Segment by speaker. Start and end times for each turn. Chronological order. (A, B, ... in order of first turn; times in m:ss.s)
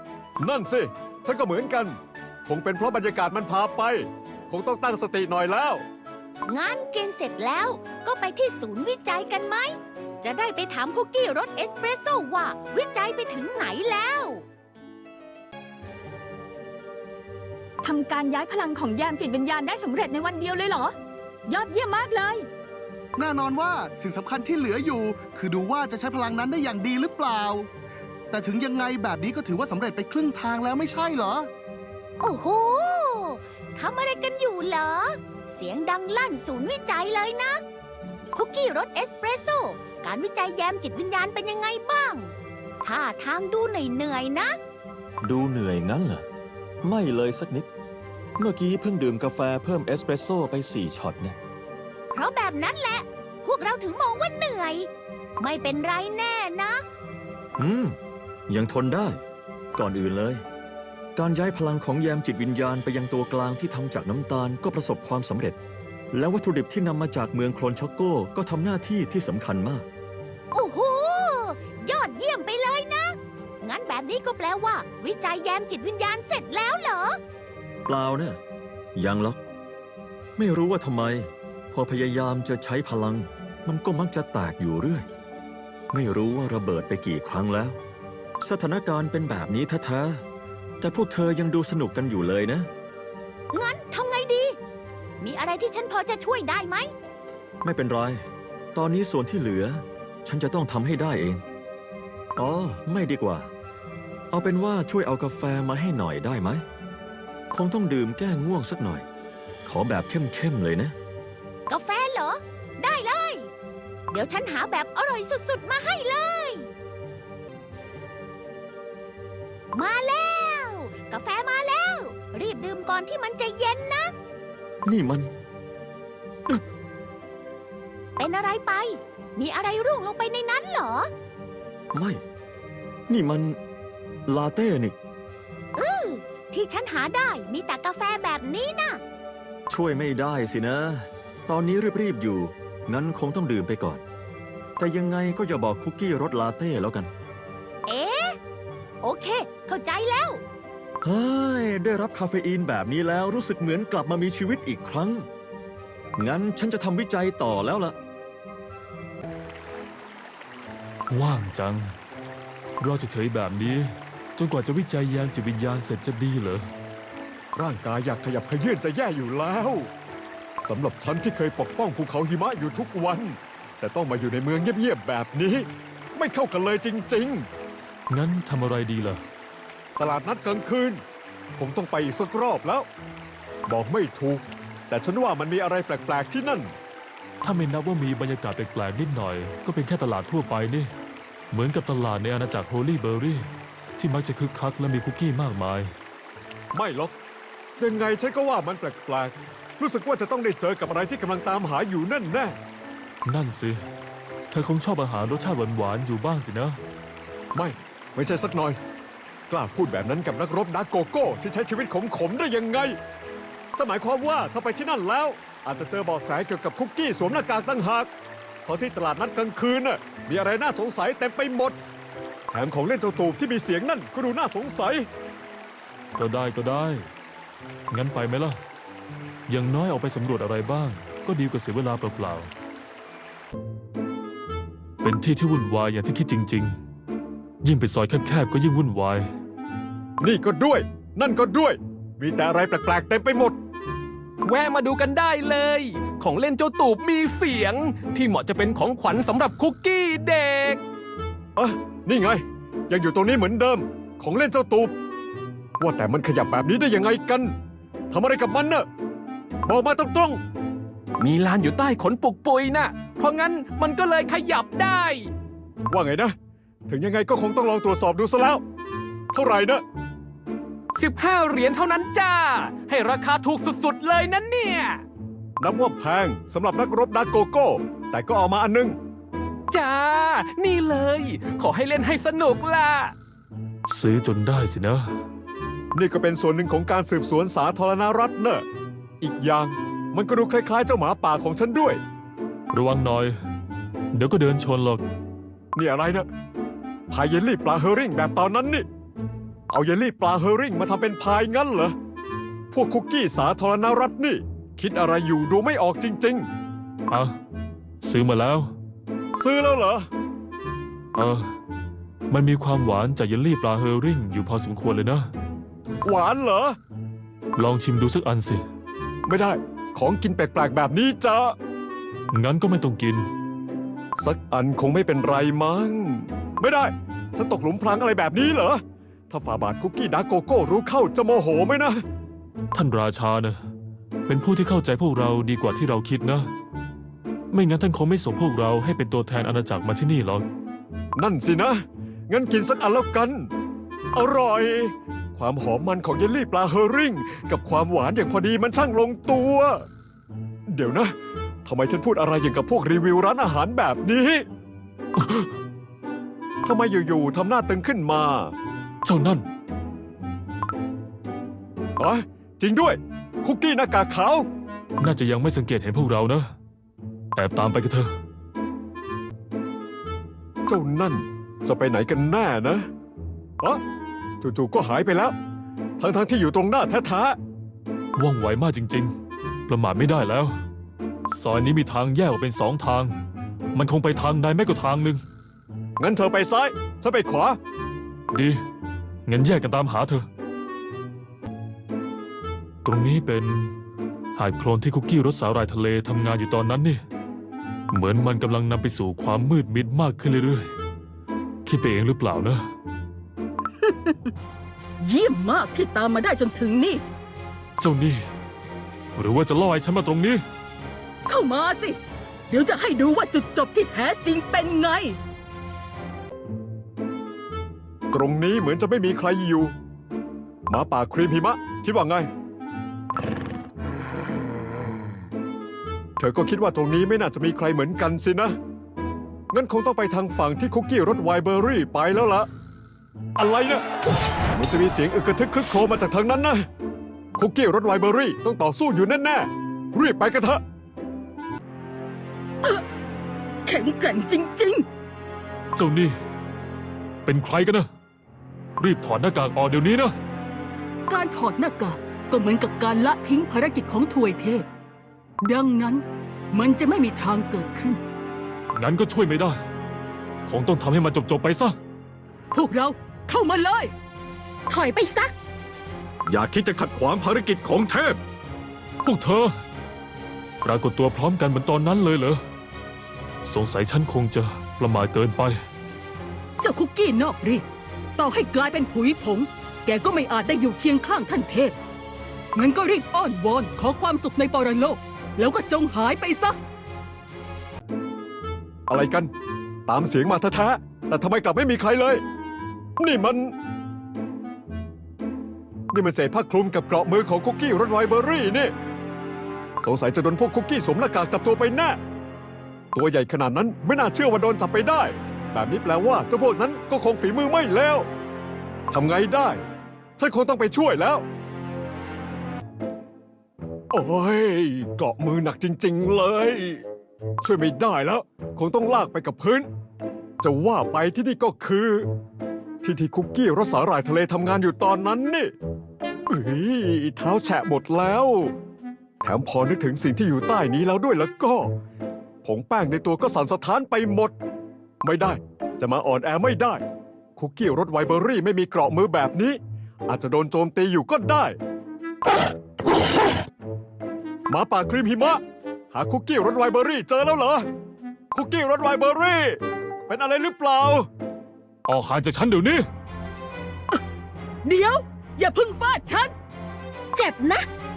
0:00.4-0:05.8 A
0:06.4-0:14.4 B
0:17.8-0:20.9 C
0:21.5-0:22.5 C
0:23.2-0:27.7 D
0:28.3-0:31.5 D
0:32.2-0:37.6 B
0:38.3-0:44.6 B
0:45.2-0:46.2 E
0:46.8-0:47.7 E
0:48.4-0:51.4 E
0:52.1-0:54.9 B
0:55.4-0:56.8 B
0:57.6-0:58.0 E
0:58.5-0:59.2 E
0:59.8-1:00.4 E
1:01.1-1:05.6 E
1:06.1-1:09.8 E
1:10.5-1:17.2 B
1:17.8-1:18.4 E
1:18.9-1:19.4 E
1:20.4-1:25.1 E
1:25.9-1:27.8 E
1:28.4-1:30.2 E
1:30.8-1:32.7 E
1:33.5-1:34.6 B
1:35.2-1:36.9 B
1:37.6-1:41.4 E
1:42.4-1:43.5 E
1:44.3-1:46.6 E
1:47.5-1:49.0 E
1:49.6-1:50.9 E
1:51.7-1:53.5 B
1:54.1-1:56.7 B
1:59.7-2:04.1 B
2:04.8-2:05.3 E
2:08.2-2:11.1 B
2:11.9-2:12.2 E
2:13.1-2:13.6 E
2:14.3-2:14.9 E
2:15.8-2:19.0 B
2:19.7-2:24.0 E
2:24.8-2:27.1 E
2:27.9-2:28.4 B
2:29.0-2:30.4 B
2:31.0-2:35.3 E
2:36.2-2:38.0 E
2:41.1-2:41.9 F
2:42.8-2:46.6 F
2:47.6-2:49.9 A
2:50.6-2:57.5 A
2:58.1-2:59.2 F
3:00.0-3:01.0 A
3:01.6-3:02.9 A
3:03.7-3:06.7 A
3:07.4-3:10.9 F
3:11.5-3:15.9 F
3:16.7-3:17.1 A
3:17.8-3:22.6 A
3:23.2-3:23.8 F
3:24.5-3:26.8 F
3:27.5-3:28.8 A
3:29.5-3:33.0 A
3:33.8-3:38.1 A
3:38.6-3:41.8 A
3:42.5-3:45.1 A
3:46.2-3:47.1 F
3:47.9-3:48.6 F
3:49.5-3:52.5 F
3:55.0-3:56.8 F
3:57.6-3:59.3 F
4:00.2-4:03.6 A
4:04.4-4:10.8 G
4:11.6-4:14.9 A
4:15.8-4:17.5 A
4:18.1-4:18.8 A
4:19.6-4:20.4 A
4:21.2-4:25.3 G
4:25.9-4:26.3 A
4:26.9-4:28.6 A
4:29.3-4:29.8 A
4:30.9-4:35.0 G
4:35.6-4:39.0 A
4:39.7-4:43.1 G
4:43.9-4:45.1 F
4:45.9-4:48.6 A
4:49.2-4:52.0 A
4:52.7-4:53.4 F
4:54.1-4:55.0 F
4:55.7-4:56.2 A
4:57.1-4:58.8 A
4:59.7-5:01.9 A
5:02.7-5:06.5 A
5:07.1-5:07.4 F
5:08.0-5:08.7 F
5:09.4-5:10.1 A
5:11.1-5:11.5 F
5:12.3-5:15.3 F
5:16.0-5:16.8 A
5:17.6-5:18.6 F
5:19.2-5:21.5 A
5:22.3-5:23.3 F
5:24.2-5:28.8 A
5:29.3-5:32.0 A
5:32.7-5:33.6 F
5:34.3-5:36.5 F
5:37.5-5:40.4 F
5:41.2-5:41.7 A
5:42.3-5:43.5 A
5:44.1-5:49.8 A
5:50.7-5:51.1 A
5:51.6-5:54.4 A
5:56.6-5:58.5 A
5:59.0-5:59.5 F
6:02.0-6:04.4 A
6:05.0-6:06.5 F
6:07.4-6:08.1 F
6:10.7-6:12.9 A
6:14.4-6:15.3 A
6:16.0-6:17.4 A
6:18.2-6:19.1 F
6:19.7-6:20.6 F
6:21.3-6:23.1 F
6:23.7-6:25.2 F
6:26.0-6:27.6 A
6:28.3-6:28.6 F
6:29.3-6:30.3 F
6:32.8-6:33.7 F
6:34.3-6:37.0 F
6:37.9-6:40.7 F
6:41.6-6:42.7 F
6:43.8-6:44.3 H
6:45.0-6:47.0 H
6:47.8-6:48.3 F
6:49.2-6:50.4 F
6:51.3-6:52.0 H
6:52.5-6:55.2 H
6:58.1-6:59.7 A
7:00.7-7:02.3 A
7:06.2-7:08.5 A
7:09.5-7:12.5 A
7:13.4-7:13.8 A
7:14.5-7:16.6 A
7:17.4-7:20.6 A
7:23.6-7:24.8 H
7:25.7-7:26.2 F
7:27.2-7:27.9 F
7:28.8-7:30.2 F
7:31.1-7:34.6 H
7:35.4-7:38.0 H
7:38.7-7:39.6 F
7:40.4-7:41.8 F
7:42.5-7:43.9 H
7:44.7-7:45.3 H
7:46.2-7:48.1 A
7:49.0-7:49.5 F
7:50.6-7:52.4 F
7:53.4-7:55.6 F
7:56.6-7:57.6 H
7:58.2-8:01.8 H
8:02.5-8:06.6 H
8:08.9-8:09.3 A
8:09.9-8:12.2 A
8:13.0-8:13.5 A
8:15.9-8:18.7 A
8:19.8-8:22.0 A
8:22.9-8:28.1 A
8:28.9-8:29.6 A
8:30.2-8:31.2 A
8:33.9-8:36.8 A
8:37.4-8:39.7 A
8:40.4-8:42.1 A
8:42.8-8:45.5 A
8:46.3-8:48.5 A
8:49.2-8:51.7 A
8:52.4-8:54.3 A
8:55.0-8:56.8 A
8:57.4-9:01.6 A
9:04.5-9:05.4 A
9:05.9-9:07.6 A
9:08.3-9:11.0 A
9:11.8-9:12.9 F
9:14.6-9:16.3 H
9:17.2-9:17.6 H